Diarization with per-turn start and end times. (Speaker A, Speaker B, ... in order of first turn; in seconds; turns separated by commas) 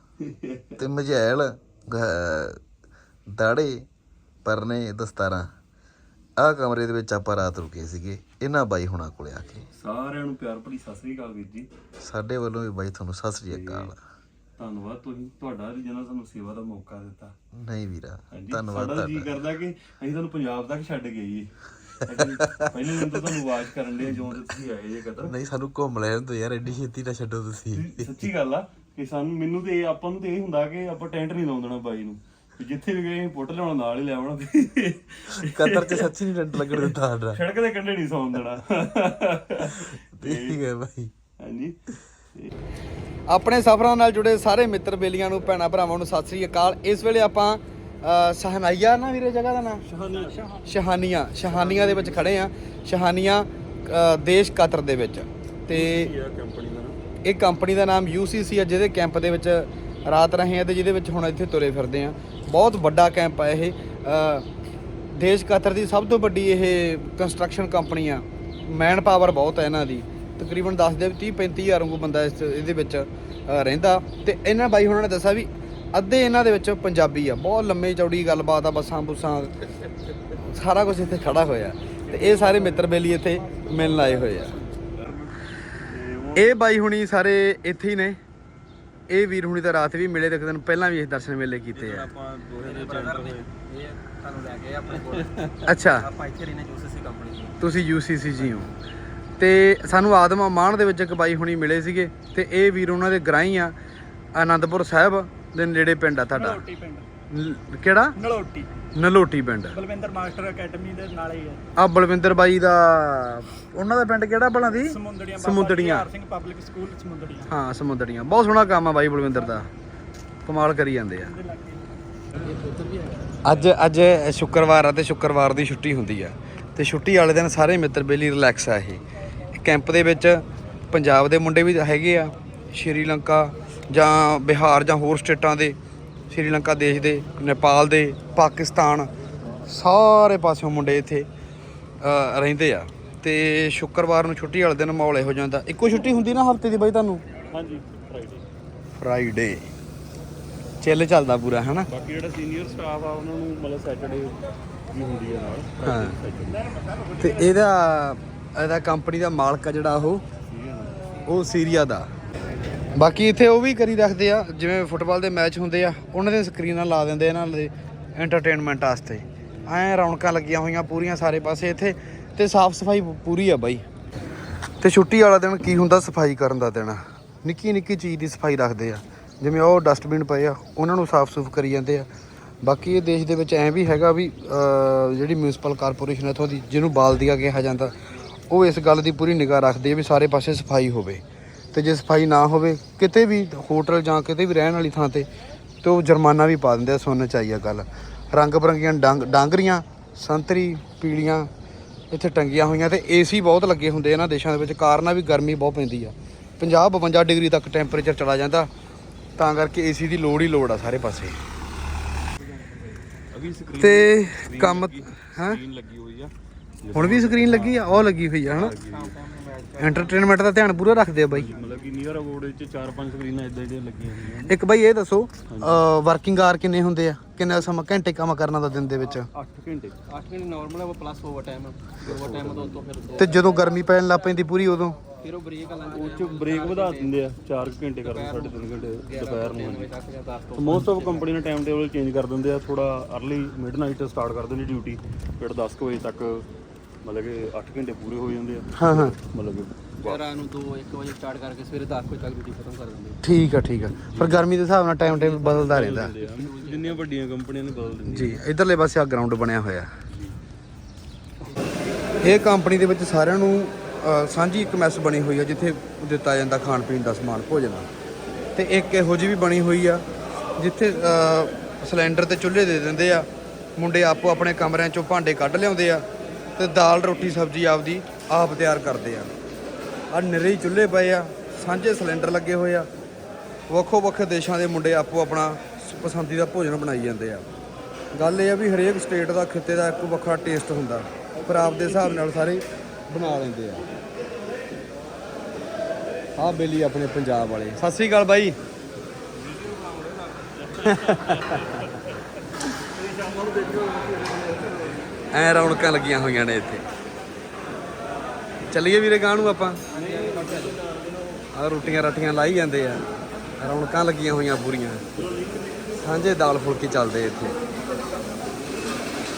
Speaker A: 0.2-0.8, Speaker B: 0.8-2.6, Speaker B: 3.3-3.9, Speaker B: 4.4-5.5, Speaker B: 6.4-9.7, Speaker A: 9.7-11.7, Speaker B: 12.0-14.0, Speaker A: 13.4-13.9, Speaker A: 14.6-17.4, Speaker B: 17.5-19.3, Speaker A: 18.3-21.5, Speaker A: 22.0-25.4, Speaker B: 22.2-22.7, Speaker B: 25.2-28.2, Speaker A: 27.7-40.6, Speaker B: 35.5-37.4, Speaker C: 35.6-36.9, Speaker B: 40.2-41.1, Speaker A: 41.4-41.8, Speaker C: 43.3-49.8, Speaker A: 49.9-50.6, Speaker C: 50.7-56.1, Speaker A: 51.4-52.5, Speaker A: 55.7-57.0, Speaker C: 57.2-64.5, Speaker C: 65.1-79.5, Speaker C: 80.5-84.6, Speaker A: 84.9-86.7, Speaker C: 86.3-88.2, Speaker C: 89.1-92.1, Speaker A: 91.7-93.5, Speaker D: 92.6-95.3, Speaker A: 94.9-95.7, Speaker C: 95.7-96.1, Speaker D: 95.8-97.5, Speaker C: 97.6-98.7, Speaker C: 99.4-103.7, Speaker C: 104.3-106.6, Speaker E: 106.3-107.0, Speaker C: 107.3-108.1, Speaker E: 108.2-108.7, Speaker C: 108.9-109.8, Speaker E: 109.7-111.6, Speaker C: 111.8-116.1, Speaker E: 114.8-117.5, Speaker C: 117.5-119.7, Speaker C: 120.5-121.3, Speaker E: 121.2-121.9, Speaker D: 122.7-123.1, Speaker C: 123.4-129.0, Speaker C: 129.6-135.8, Speaker C: 136.3-139.1, Speaker C: 139.7-141.3, Speaker C: 142.0-147.2, Speaker A: 147.5-148.4, Speaker C: 149.0-149.7, Speaker C: 150.8-151.9, Speaker A: 151.9-154.4, Speaker A: 154.9-156.7, Speaker C: 155.8-156.2, Speaker C: 157.2-160.2, Speaker A: 160.5-161.0, Speaker C: 161.3-162.1, Speaker C: 162.9-173.8, Speaker C: 174.8-182.1, Speaker C: 182.6-187.9, Speaker C: 188.5-191.2, Speaker C: 191.7-195.3, Speaker C: 195.8-201.5, Speaker C: 202.1-208.7, Speaker C: 209.4-211.4, Speaker A: 213.3-219.1, Speaker C: 213.8-215.6, Speaker C: 216.9-218.8, Speaker C: 219.8-221.5, Speaker A: 221.3-224.6, Speaker C: 224.5-229.3, Speaker A: 225.5-225.8, Speaker A: 229.3-229.9, Speaker D: 230.1-233.5, Speaker A: 232.0-232.8, Speaker C: 233.2-235.0, Speaker D: 235.2-237.2, Speaker A: 235.9-239.9, Speaker D: 238.0-241.2, Speaker A: 240.5-246.4, Speaker A: 247.0-250.2, Speaker C: 248.8-249.2, Speaker D: 250.0-253.2, Speaker C: 253.2-256.1, Speaker A: 254.1-254.5, Speaker A: 255.0-258.4, Speaker D: 256.2-257.0, Speaker C: 258.1-259.9, Speaker C: 262.2-267.9, Speaker C: 268.6-270.0, Speaker C: 270.6-276.0, Speaker C: 276.6-279.3, Speaker C: 280.1-282.9, Speaker C: 283.7-287.5, Speaker C: 288.1-293.9, Speaker C: 296.4-298.6, Speaker A: 299.4-302.1, Speaker C: 300.8-301.6, Speaker A: 302.9-304.9, Speaker C: 305.3-306.8, Speaker C: 308.7-309.8, Speaker A: 309.9-310.8, Speaker D: 309.9-310.8, Speaker C: 311.5-313.0, Speaker C: 313.6-315.0, Speaker A: 315.1-316.0, Speaker C: 316.0-317.6